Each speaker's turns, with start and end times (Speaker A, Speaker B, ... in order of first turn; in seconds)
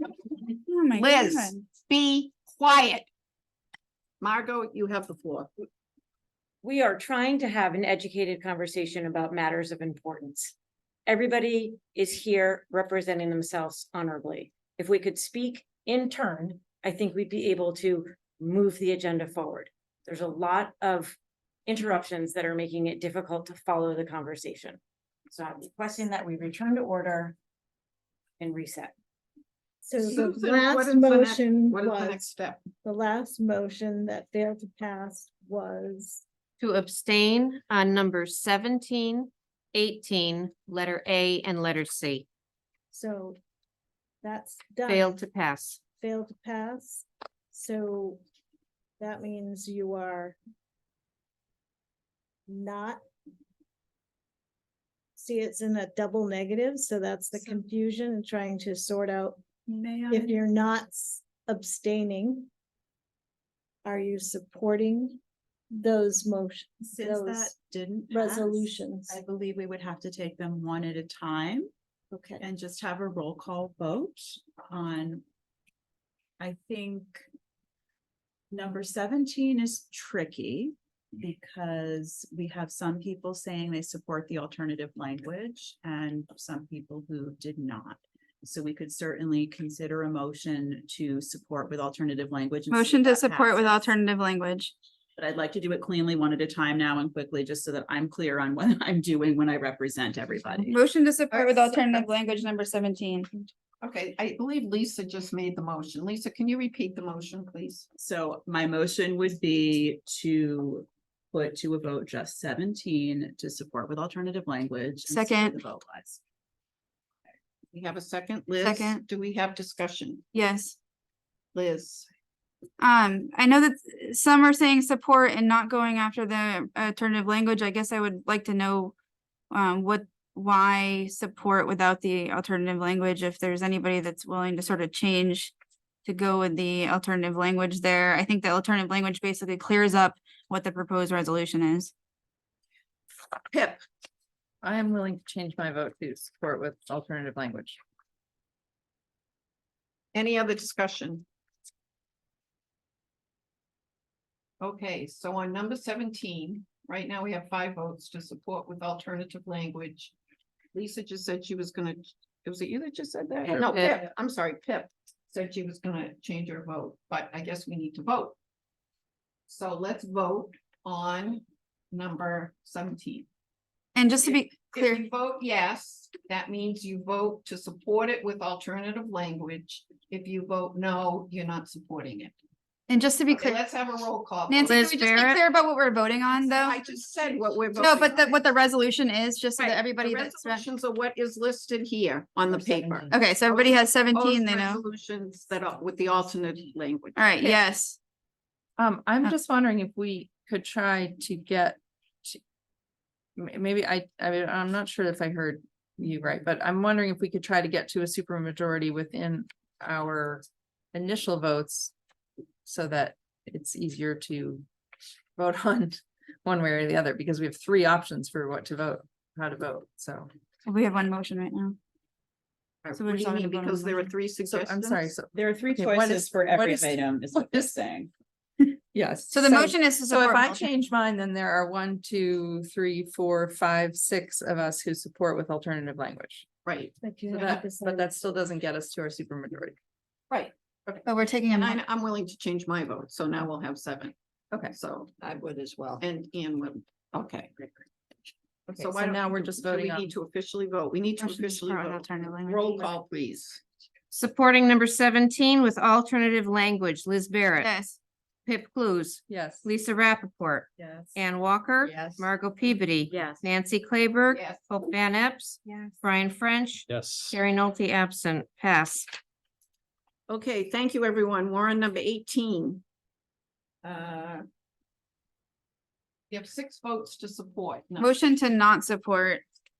Speaker A: 0.7-1.6, 92.7-94.7, 100.7-103.3, 115.1-115.6, 118.6-119.0, 120.3-120.8, 122.8-128.9, 129.5-135.5, 136.0-141.9, 173.9-175.0, 182.9-183.6, 184.5-186.8, 187.8-190.6, 193.1-194.8, 197.2-198.0, 220.7-221.8, 222.9-224.1, 229.3-230.7, 241.0-241.8, 251.2-252.9, 257.6-257.9, 278.0-279.4
Speaker B: 1.0-3.0, 4.2-5.5, 30.1-32.7, 101.3-102.0, 103.8-107.9, 117.7-120.2, 121.5-122.1, 143.5-143.8, 150.1-151.2, 154.6-160.1, 160.7-168.3, 169.5-173.3, 174.2-182.3, 183.3-184.8, 186.6-188.4, 189.6-197.6, 222.8-225.0, 236.6-237.5, 240.3-241.0, 241.6-244.1, 244.7-247.9, 248.7-253.6, 264.3-264.6, 270.3-272.8, 273.8-274.4, 276.3-278.1
Speaker C: 6.6-10.5, 11.1-27.4, 28.4-28.9
Speaker D: 29.8-32.3, 32.8-36.2, 42.9-43.4, 44.2-45.1, 46.0-48.2, 49.0-50.4, 52.5-53.0, 55.1-59.4, 60.1-62.5, 63.8-67.5, 68.1-69.2, 237.0-238.1
Speaker E: 36.6-42.2, 44.9-45.8, 163.5-164.1, 184.6-185.4, 254.1-257.7, 258.5-269.1
Speaker F: 59.7-60.3, 66.8-71.7, 72.4-75.2, 76.4-77.2, 78.5-93.8, 95.2-100.7, 108.0-116.2, 225.3-228.1, 260.8-261.2, 261.8-262.3, 263.1-263.4
Speaker G: 144.6-147.8, 198.8-202.4, 203.4-211.9, 212.7-214.7, 215.4-220.3, 224.4-227.7, 228.9-236.5, 237.3-239.8, 248.7-250.1, 259.3-259.7